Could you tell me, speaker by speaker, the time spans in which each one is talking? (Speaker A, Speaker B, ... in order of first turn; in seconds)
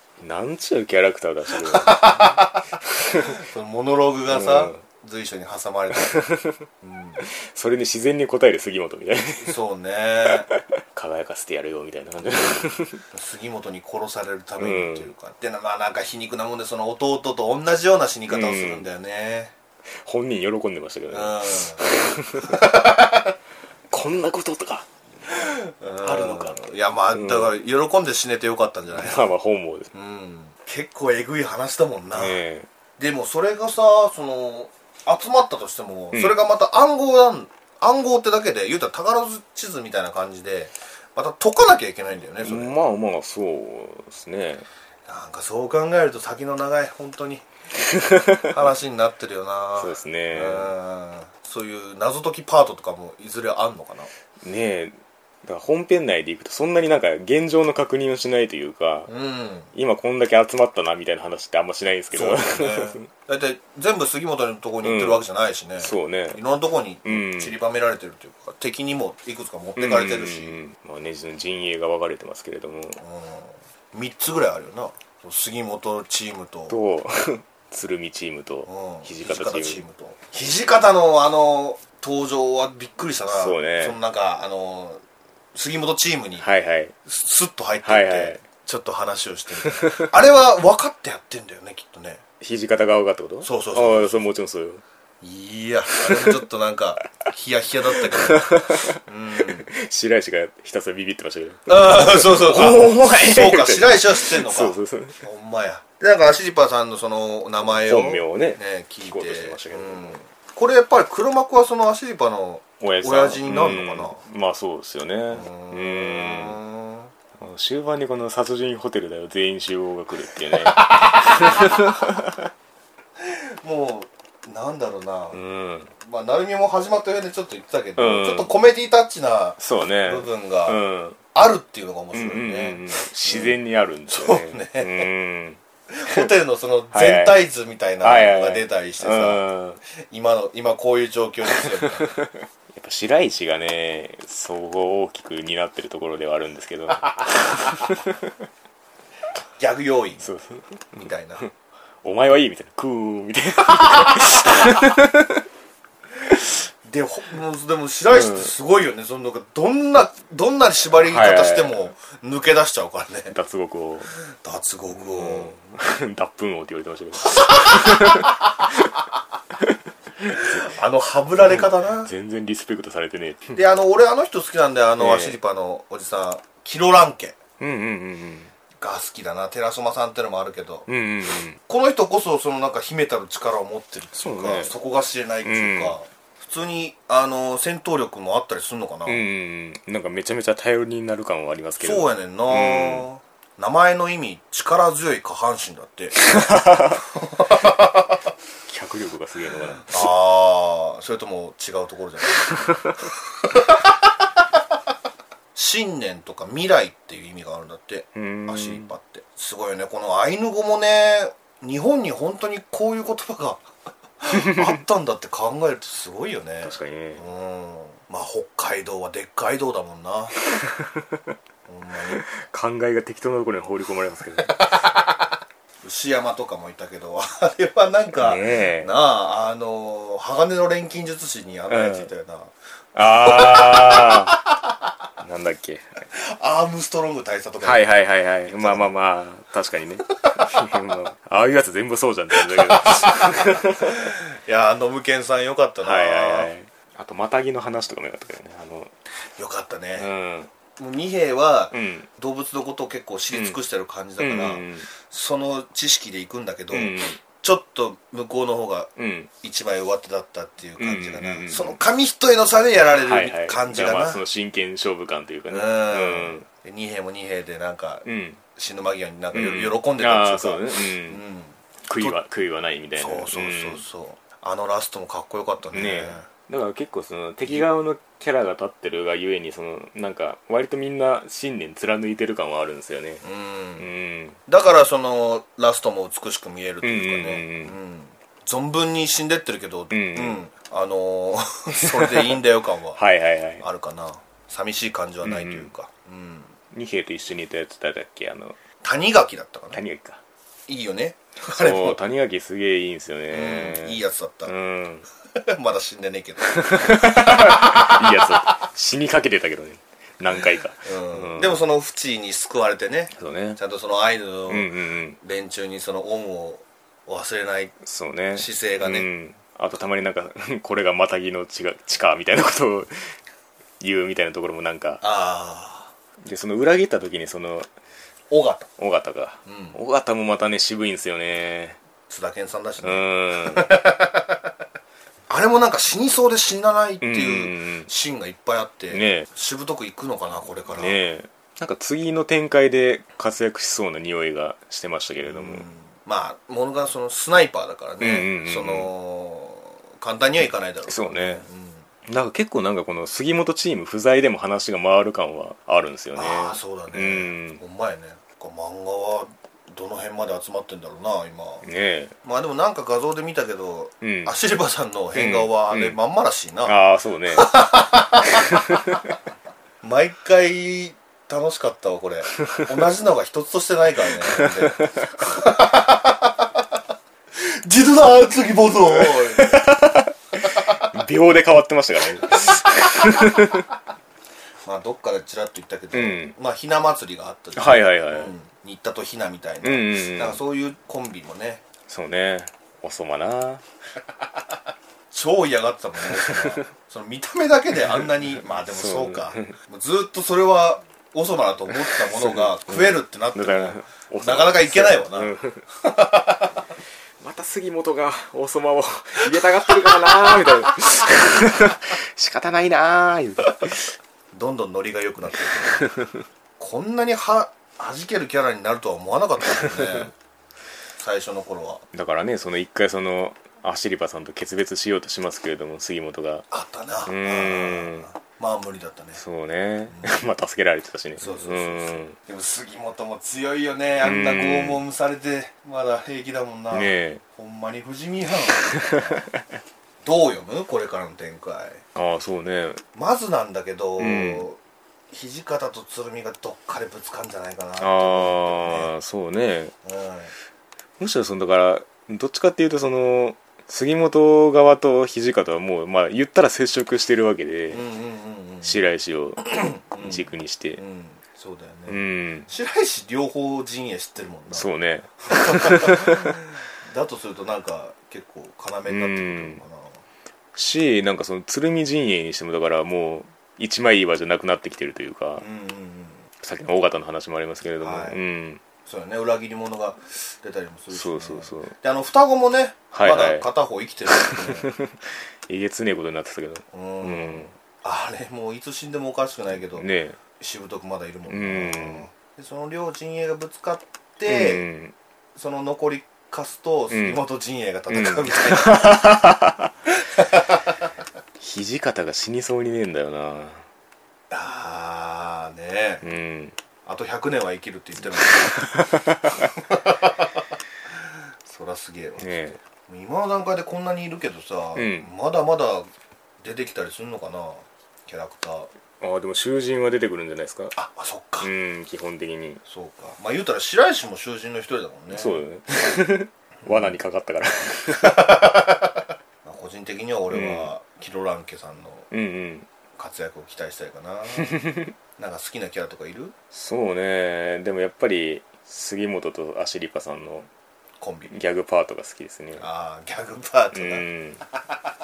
Speaker A: 0.2-2.5, 3.0-3.4, 4.3-4.8, 5.9-6.6, 7.2-9.6, 10.9-13.0, 14.6-15.1, 18.3-18.9, 20.0-22.7, 23.9-24.9, 26.0-26.6, 27.1-27.5, 28.9-29.9, 32.1-32.7, 36.1-36.4, 42.4-44.6, 48.0-48.5, 49.8-50.7, 54.4-59.1, 59.7-63.1, 64.8-65.2, 65.8-66.4, 67.0-67.5, 69.8-73.0, 76.7-79.8, 83.3-84.0, 86.4-86.9, 87.8-88.4, 89.8-90.1, 92.4-94.8, 96.1-96.4, 98.0-105.2, 107.6-110.2, 112.8-116.6, 117.4-122.4, 125.3-125.9, 128.0-128.5, 129.6-131.2, 132.1-136.3, 136.9-137.4, 138.0-139.8, 142.0-148.1, 150.2-151.5, 152.0-155.4, 158.1-158.5, 161.0-161.8, 163.3-164.1, 164.9-168.8, 169.7-170.7, 171.4-173.5, 175.0-175.4, 177.6-178.5, 180.9-181.6, 184.2-184.7, 185.4-186.0, 189.1-193.1, 196.3-196.9, 198.7-200.1, 208.1-208.9, 216.6-217.2, 220.6-221.2, 222.3-224.6, 228.2-228.9, 231.7-232.1, 232.9-234.4, 235.2-236.0, 237.6-243.9, 245.8-248.9, 250.0-250.5, 251.7-252.1, 253.3-253.6, 254.2-254.9, 256.7-257.2, 259.0-259.3, 260.8-261.8, 262.9-266.4, 268.0-268.4, 269.3-271.2, 271.9-273.8, 275.7-283.2, 283.8-284.4, 286.8-287.8, 289.9-290.4, 291.9-292.4, 292.9-293.6, 295.2-295.7, 296.7-298.6, 299.7-300.2, 301.4-305.1, 306.6-311.6, 313.1-313.6, 314.5-315.2, 317.8-322.9, 323.8-325.0, 326.2-327.7, 328.8-331.8, 332.8-333.7, 337.0-337.9, 338.9-339.3, 340.7-345.6, 348.0-348.9, 350.9-351.4, 352.1-357.6, 361.6-362.1, 364.0-364.3, 365.1-366.0, 366.6-367.5, 368.5-369.1, 379.0-383.6, 385.9-386.3, 387.6-388.3, 389.6-390.4, 391.9-393.6, 398.7-399.6, 401.9-405.6, 407.2-413.9, 415.4-416.2, 419.5-419.9, 421.9-426.4, 427.1-428.1, 429.2-432.2, 434.0-434.8, 436.7-437.2, 441.9-442.8, 444.0-444.5, 447.8-449.7, 451.0-457.8, 458.6-460.8, 461.9-462.5, 464.5-466.3, 468.9-469.6, 470.5-475.4, 476.4-478.6, 480.9-481.7, 482.9-483.4, 484.1-484.9, 485.5-487.5, 489.7-490.2, 491.3-492.1, 494.3-494.9, 496.9-497.2, 497.9-499.7, 501.4-503.6, 506.0-506.6, 508.4-509.4, 512.2-512.6, 514.8-515.1, 519.0-520.7, 521.4-522.6, 525.1-528.6, 530.3-530.7, 532.1-532.7, 534.4-534.9, 536.5-540.5, 541.3-542.7, 543.7-544.4
Speaker B: 1.6-2.6, 3.2-6.2, 6.8-7.2, 9.3-10.5, 13.1-19.5, 21.1-21.8, 22.4-23.3, 25.3-29.3, 29.9-32.4, 33.0-42.8, 45.0-47.5, 48.4-54.1, 59.1-59.7, 62.1-70.6, 73.0-76.8, 78.6-85.0, 85.5-86.5, 87.0-92.2, 93.4-94.3, 95.2-99.7, 101.7-114.2, 115.3-117.1, 120.5-121.8, 123.2-125.4, 126.0-130.8, 131.3-135.1, 135.9-139.4, 140.1-142.1, 149.6-150.2, 151.0-151.4, 156.8-163.3, 164.3-165.5, 167.3-168.3, 170.4-172.1, 173.5-177.4, 178.8-180.9, 181.6-189.2, 191.8-196.2, 197.0-198.2, 199.8-202.6, 205.5-213.7, 214.2-220.3, 221.7-222.2, 224.4-224.9, 225.8-232.5, 233.1-234.5, 236.1-237.9, 238.5-238.9, 242.4-246.5, 249.4-250.1, 250.8-258.9, 259.4-264.2, 265.5-268.0, 268.6-272.2, 273.0-276.2, 283.2-283.9, 284.5-293.0, 293.6-296.5, 298.8-299.8, 300.7-302.0, 303.3-304.5, 305.3-308.5, 310.8-317.7, 318.3-319.1, 325.0-325.9, 328.3-328.7, 329.4-329.8, 332.1-334.4, 335.3-341.0, 345.2-351.9, 356.1-361.6, 362.2-366.8, 367.3-368.5, 369.8-376.5, 377.3-379.8, 380.6-380.9, 384.6-391.6, 395.1-406.5, 414.3-415.9, 416.6-420.1, 421.0-421.8, 426.5-429.2, 431.2-439.2, 440.0-441.8, 442.9-444.6, 445.1-448.9, 449.8-450.3, 457.7-458.8, 459.4-464.7, 465.3-470.0, 475.4-476.2, 477.8-478.2, 478.8-484.7, 486.7-489.9, 490.4-494.6, 495.3-499.2, 500.2-500.6, 504.3-506.0, 506.8-508.6, 509.4-510.3, 511.4-515.9, 516.4-518.7, 520.7-521.5, 522.6-525.4, 526.6-527.0, 527.9-528.8, 529.4-532.1, 533.0-534.6, 535.2-536.3, 541.0-541.3, 542.5-544.1